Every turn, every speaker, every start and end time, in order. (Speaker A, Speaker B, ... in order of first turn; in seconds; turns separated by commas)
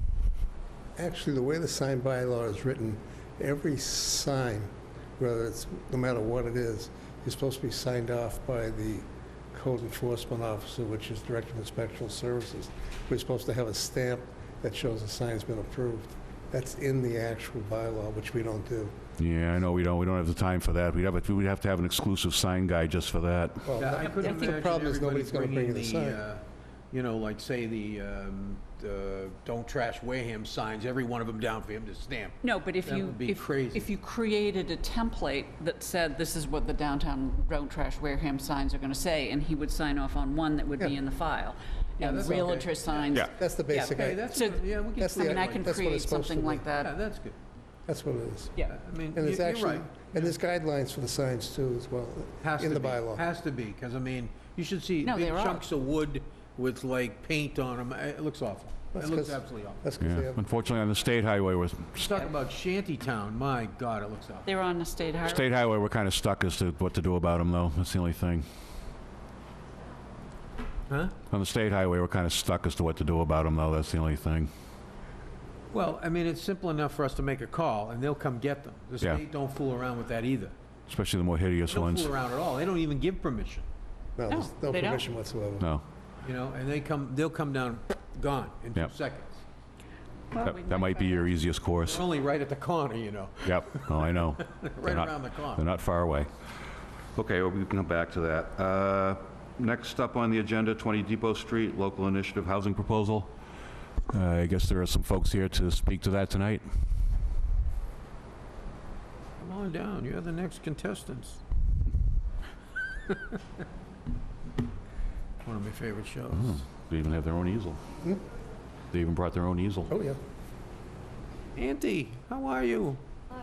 Speaker A: 1.0-18.9, Speaker B: 19.2-23.7, Speaker A: 23.6-26.2, Speaker C: 23.8-33.9, Speaker D: 24.1-24.6, Speaker D: 32.4-46.9, Speaker C: 42.0-45.8, Speaker A: 43.3-46.7, Speaker C: 46.8-47.4, Speaker A: 47.9-53.2, Speaker C: 48.7-50.3, Speaker C: 52.4-59.8, Speaker D: 55.0-55.6, Speaker A: 58.9-60.4, Speaker B: 60.0-62.2, Speaker C: 62.0-64.5, Speaker D: 64.5-65.5, Speaker B: 65.2-68.5, Speaker C: 70.9-71.2, Speaker B: 71.3-74.5, Speaker C: 75.7-80.5, Speaker B: 80.9-82.1, Speaker C: 81.7-83.7, Speaker A: 84.2-85.7, Speaker D: 84.3-85.1, Speaker C: 86.2-89.5, Speaker D: 90.3-91.4, Speaker B: 90.4-92.0, Speaker C: 91.8-95.7, Speaker B: 93.4-96.3, Speaker B: 97.2-103.3, Speaker B: 104.1-106.7, Speaker C: 109.4-111.4, Speaker C: 115.4-116.6, Speaker B: 116.3-117.8, Speaker B: 118.9-119.9, Speaker A: 119.9-120.2, Speaker C: 121.5-123.0